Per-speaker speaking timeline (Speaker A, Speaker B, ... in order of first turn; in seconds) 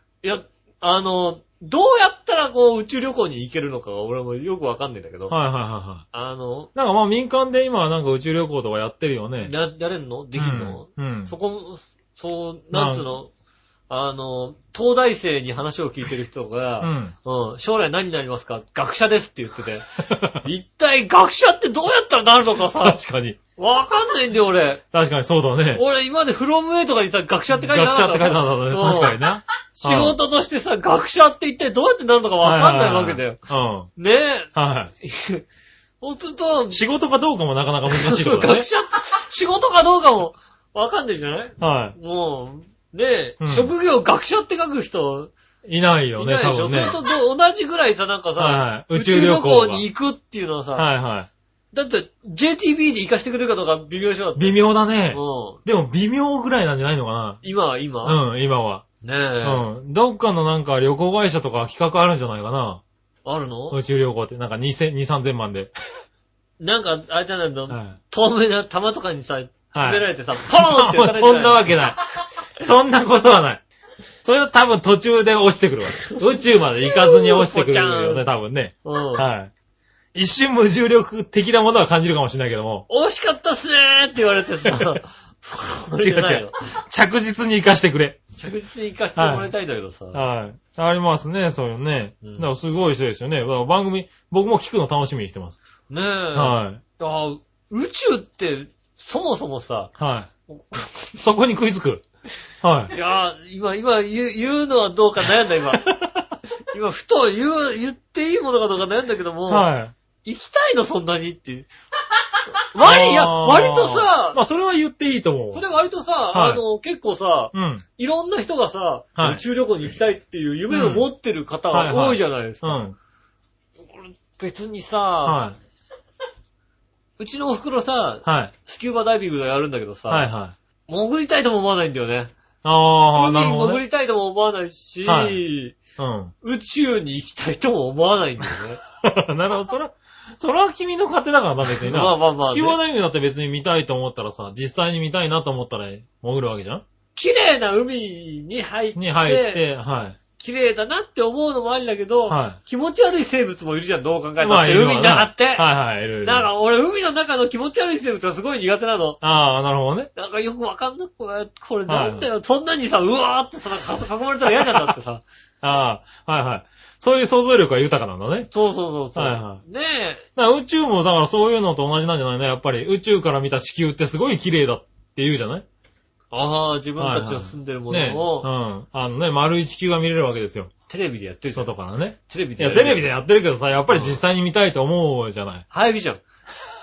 Speaker A: 0.2-5.3, 6.1-6.7, 9.4-13.3, 13.9-23.0, 23.6-24.8, 25.7-29.2, 29.8-33.4, 34.0-35.4, 36.0-36.8, 37.9-45.3, 46.2-50.9, 51.7-55.6, 57.4-58.2, 59.0-59.6, 63.2-63.8, 66.6-71.8, 76.8-78.3, 78.8-79.3, 82.9-86.7, 88.4-90.2, 92.2-92.5, 95.9-99.9, 100.5-101.2, 102.9-105.9, 106.7-109.7, 110.2-111.7, 112.7-114.4, 115.5-122.8, 123.8-125.4, 127.2-130.3, 130.9-132.3, 133.1-135.8, 136.4-138.8, 141.8-142.8, 147.1-149.6, 150.4-155.7, 156.2-159.2, 160.1-165.2, 168.5-170.2, 176.3-178.5, 180.9-181.7, 182.3-183.1, 183.9-184.2, 185.7-186.2
Speaker B: 5.3-6.0, 6.7-9.5, 10.4-11.3, 12.7-13.1, 16.8-17.1, 20.1-20.4, 22.8-23.4, 24.9-25.8, 27.5-30.2, 32.4-33.9, 34.5-34.9, 36.7-38.6, 41.6-42.0, 43.4-43.7, 45.6-47.0, 48.4-49.9, 50.7-51.3, 54.4-57.4, 58.0-58.8, 59.4-62.8, 63.7-65.7, 67.7-68.0, 69.7-72.0, 72.6-73.6, 74.2-79.5, 80.1-82.8, 84.7-84.9, 86.0-88.2, 89.2-89.5, 90.1-95.6, 96.3-96.8, 100.0-100.3, 101.2-102.0, 102.6-102.9, 105.8-106.3, 109.5-109.9, 112.8-115.6, 116.3-116.6, 117.5-117.8, 119.2-119.4, 120.7-121.1, 121.7-122.9, 125.2-125.6, 128.2-128.5, 130.1-130.5, 132.6-133.8, 135.1-135.4, 136.0-136.3, 139.0-146.8, 148.9-150.2, 152.3-152.6, 154.4-156.5, 159.2-160.1, 161.9-162.3, 165.6-168.5, 169.1-169.6, 170.3-175.6, 177.0-180.7, 181.5-185.6